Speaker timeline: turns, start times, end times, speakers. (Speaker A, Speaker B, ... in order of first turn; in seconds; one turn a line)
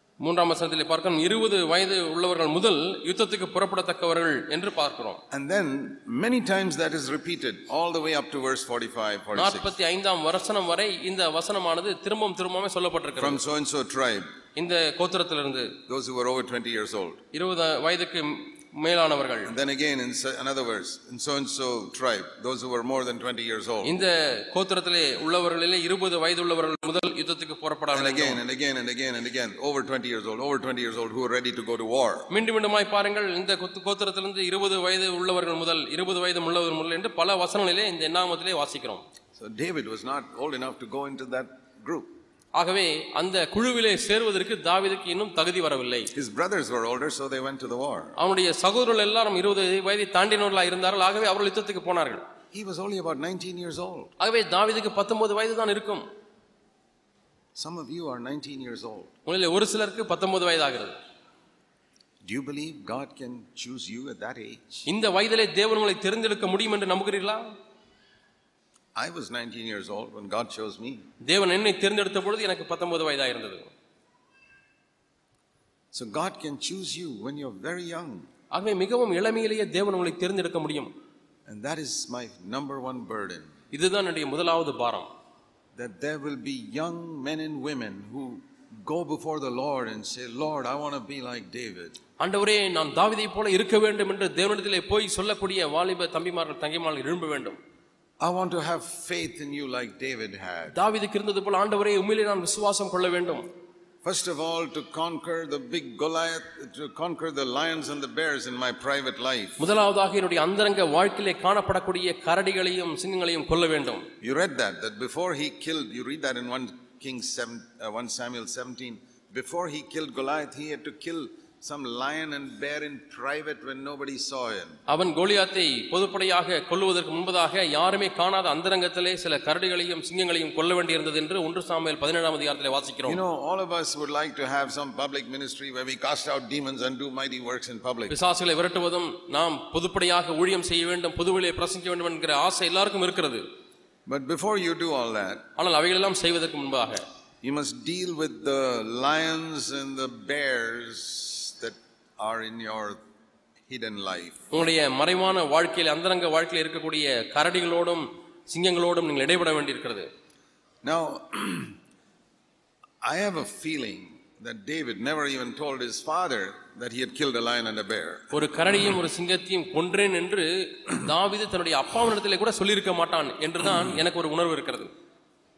Speaker A: 0.2-5.2
Speaker B: 5.3-9.7
Speaker A: 9.3-13.4
Speaker B: 13.2-14.3
Speaker A: 14.6-15.8
Speaker B: 15.9-17.2
Speaker A: 17.3-19.5
Speaker B: 19.4-23.9
Speaker A: 23.8-28.4
Speaker B: 27.9-32.3
Speaker A: 32.3-39.0
Speaker B: 39.4-42.1
Speaker A: 42.5-46.1
Speaker B: 46.1-48.1
Speaker A: 48.2-52.2
Speaker B: 52.5-54.1
Speaker A: 54.2-56.1
Speaker B: 57.5-59.1
Speaker A: 59.2-61.0
Speaker B: 62.2-64.8
Speaker A: 64.9-67.5
Speaker B: 69.0-71.0
Speaker A: 71.2-73.7
Speaker B: 75.9-78.3
Speaker A: 78.5-80.9
Speaker B: 81.5-83.5
Speaker A: 83.7-85.1
Speaker B: 85.8-92.0
Speaker A: 92.2-97.6
Speaker B: 98.2-100.7
Speaker A: 100.7-103.5
Speaker B: 104.0-109.6
Speaker A: 109.6-114.1
Speaker B: 114.2-124.8
Speaker A: 124.9-133.2
Speaker B: 133.1-138.2
Speaker A: 138.1-143.4
Speaker B: 144.1-145.5
Speaker A: 145.6-147.0
Speaker B: 147.4-153.0
Speaker B: 153.7-154.4
Speaker A: 154.5-160.1
Speaker B: 160.8-161.8
Speaker B: 163.0-168.4
Speaker A: 168.3-174.9